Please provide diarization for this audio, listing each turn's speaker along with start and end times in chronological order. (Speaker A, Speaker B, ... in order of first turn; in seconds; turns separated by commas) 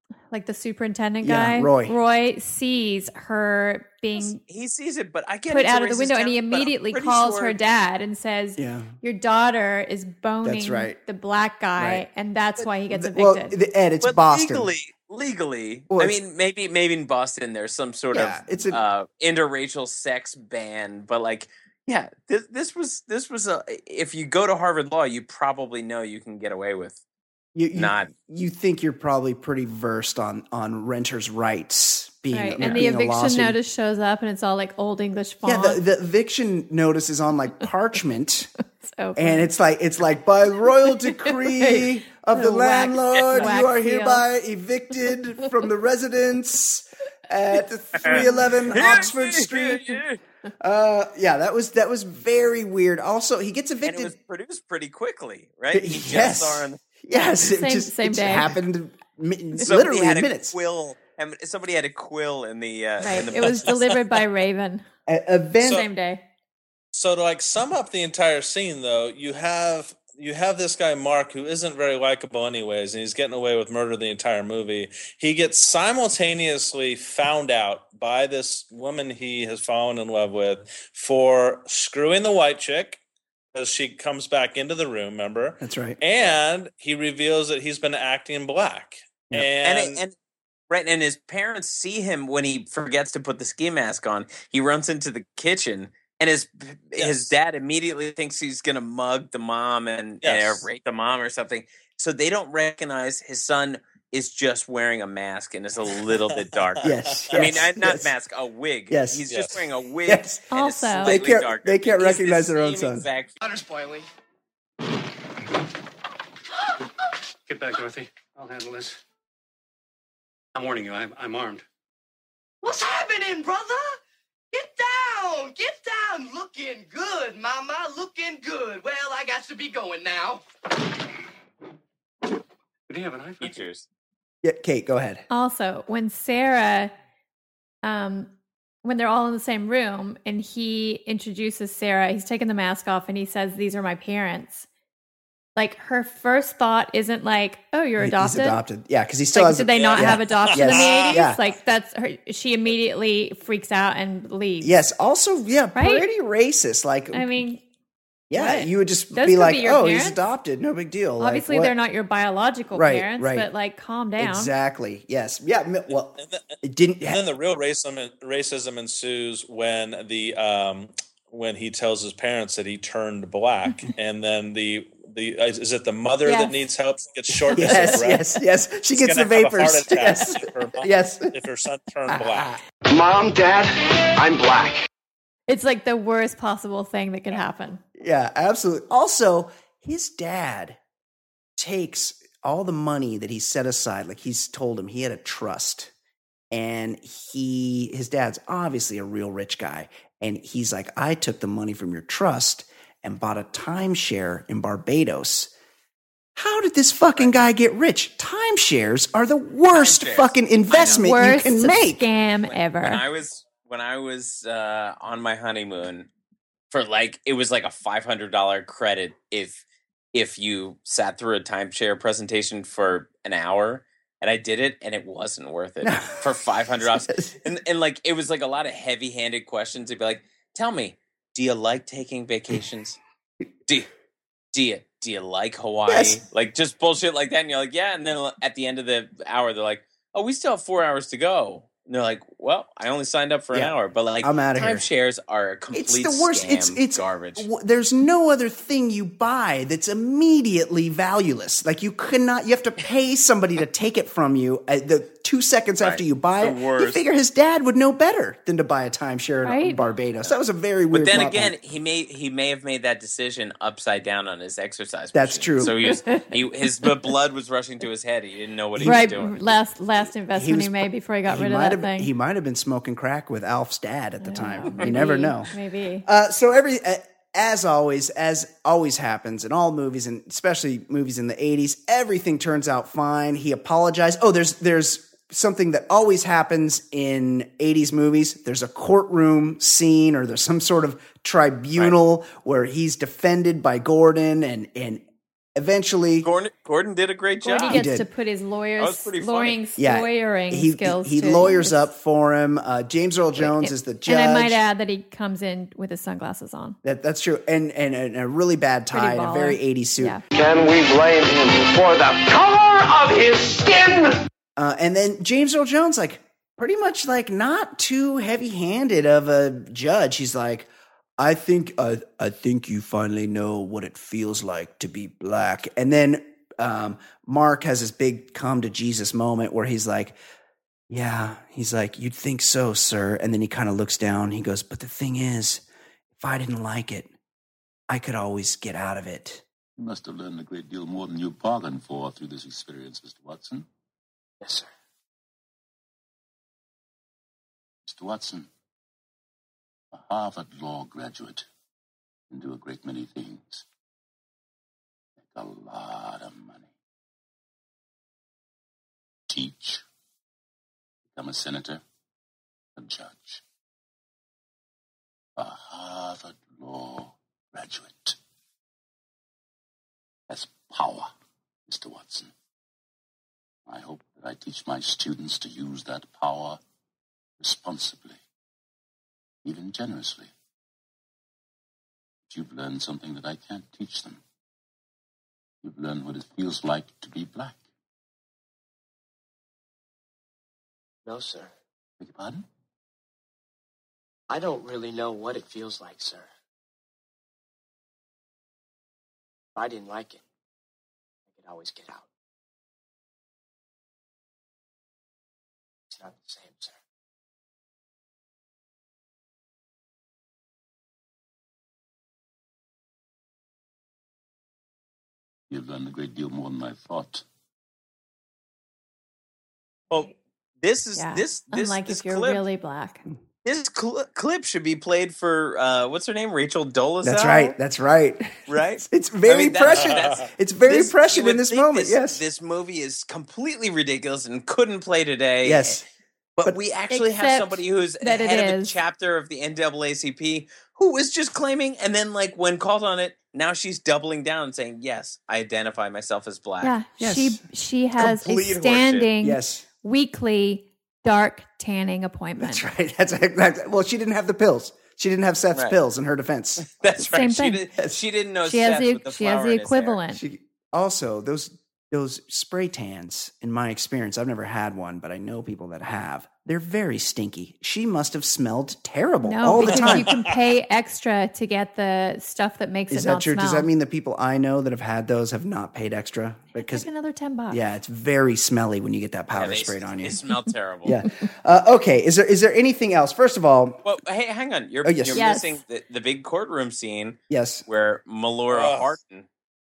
Speaker A: 0.3-4.4, Speaker B: 1.2-1.9, Speaker C: 4.2-7.6, Speaker A: 5.5-13.6, Speaker B: 8.6-8.9, Speaker B: 10.4-11.0, Speaker B: 11.8-12.1, Speaker B: 12.9-14.7, Speaker C: 14.0-27.0, Speaker B: 15.9-16.2, Speaker B: 18.1-18.8, Speaker B: 27.6-33.6, Speaker C: 27.8-28.1, Speaker A: 32.3-35.8, Speaker B: 35.4-38.5, Speaker A: 38.8-39.5, Speaker B: 39.2-50.0, Speaker A: 40.9-44.2, Speaker C: 43.1-43.4, Speaker A: 48.1-48.9, Speaker C: 48.7-50.2, Speaker B: 50.6-54.1, Speaker C: 53.8-56.8, Speaker B: 55.7-60.5, Speaker A: 57.1-58.5, Speaker C: 59.6-63.7, Speaker A: 63.0-64.8, Speaker D: 63.5-63.9, Speaker B: 65.1-65.8, Speaker A: 65.6-66.2, Speaker D: 66.9-83.0, Speaker D: 83.5-90.0, Speaker B: 85.6-86.0, Speaker C: 89.6-90.1, Speaker C: 90.7-113.4, Speaker D: 97.0-97.3, Speaker D: 100.2-100.7, Speaker D: 106.8-107.5, Speaker B: 106.8-108.1, Speaker B: 108.9-109.2, Speaker D: 109.3-109.6, Speaker B: 110.1-110.4, Speaker A: 110.5-111.2, Speaker B: 111.0-113.0, Speaker E: 113.4-114.1, Speaker F: 117.5-119.0, Speaker F: 120.5-121.7, Speaker E: 122.6-123.8, Speaker E: 124.5-130.4, Speaker F: 132.9-133.6, Speaker C: 133.4-133.9, Speaker B: 134.4-135.2, Speaker A: 135.3-136.9, Speaker A: 137.8-138.3, Speaker A: 138.8-144.7, Speaker A: 145.6-148.6, Speaker B: 148.0-151.4, Speaker A: 149.3-154.7, Speaker D: 150.0-151.2, Speaker B: 154.6-157.3, Speaker A: 155.8-156.1, Speaker A: 157.1-157.6, Speaker B: 158.3-161.8, Speaker A: 158.3-160.2, Speaker A: 161.2-164.5, Speaker B: 162.7-163.5, Speaker B: 164.2-167.2, Speaker D: 167.1-178.3, Speaker A: 176.2-176.6, Speaker B: 177.5-181.3, Speaker A: 177.6-177.9, Speaker D: 178.9-182.6, Speaker B: 182.1-182.6, Speaker G: 182.9-184.9, Speaker A: 185.5-187.8, Speaker B: 188.0-190.8, Speaker B: 191.6-195.9, Speaker B: 196.5-205.5, Speaker B: 206.4-212.1, Speaker C: 209.7-211.1, Speaker A: 211.0-213.0, Speaker C: 212.5-216.1, Speaker C: 216.7-233.0, Speaker B: 225.8-226.3, Speaker B: 226.9-227.3, Speaker C: 234.5-247.5, Speaker B: 235.9-236.2, Speaker B: 243.5-244.9, Speaker B: 245.7-261.5, Speaker C: 255.8-257.0, Speaker A: 259.4-259.8, Speaker C: 260.9-269.4, Speaker B: 265.1-265.8, Speaker A: 265.8-266.9, Speaker B: 268.8-269.1, Speaker A: 268.8-272.1, Speaker B: 270.4-275.5, Speaker A: 274.2-276.1, Speaker B: 276.1-295.0, Speaker B: 295.6-296.3, Speaker C: 296.2-297.9, Speaker A: 297.4-301.9, Speaker B: 297.7-298.1, Speaker C: 298.8-299.6, Speaker B: 299.8-304.6, Speaker A: 303.4-306.8, Speaker B: 306.8-310.2, Speaker A: 308.9-310.2, Speaker G: 310.3-314.2, Speaker B: 314.6-330.2, Speaker B: 330.9-335.6, Speaker B: 336.2-337.1, Speaker B: 337.9-339.4, Speaker H: 339.8-343.7, Speaker I: 344.4-344.7, Speaker H: 347.9-348.5, Speaker H: 349.9-351.5, Speaker H: 352.3-353.7, Speaker H: 355.2-356.7, Speaker H: 359.3-359.8, Speaker H: 361.1-361.8, Speaker H: 362.8-363.4, Speaker H: 365.4-368.2, Speaker H: 370.3-371.1, Speaker H: 371.7-372.3, Speaker H: 373.7-376.6, Speaker H: 377.4-378.2, Speaker H: 379.4-380.3, Speaker H: 382.3-384.2, Speaker H: 385.6-387.6, Speaker I: 391.1-391.5, Speaker H: 392.0-392.5, Speaker I: 394.3-396.3, Speaker I: 399.6-400.2, Speaker I: 401.3-402.1, Speaker I: 405.9-406.8, Speaker H: 415.5-417.2, Speaker C: 419.9-422.4, Speaker A: 421.0-423.0, Speaker C: 423.4-427.6, Speaker B: 427.0-432.2, Speaker C: 428.5-435.8, Speaker D: 429.7-430.2, Speaker B: 435.4-435.8, Speaker C: 436.4-446.8, Speaker A: 436.9-438.8, Speaker A: 446.6-452.6, Speaker B: 447.0-447.4, Speaker B: 448.0-448.5, Speaker C: 448.1-449.1, Speaker B: 449.2-449.7, Speaker B: 452.4-456.7, Speaker C: 456.6-460.0, Speaker A: 457.1-457.6, Speaker A: 458.4-460.2, Speaker B: 460.1-470.1, Speaker A: 469.2-473.7, Speaker D: 469.6-470.3, Speaker B: 472.9-476.9, Speaker A: 476.6-477.6, Speaker B: 477.5-480.2, Speaker C: 479.3-481.0, Speaker B: 480.9-483.8, Speaker C: 483.9-489.3, Speaker B: 484.8-485.2, Speaker A: 485.1-485.6, Speaker B: 487.3-487.6, Speaker D: 488.5-488.9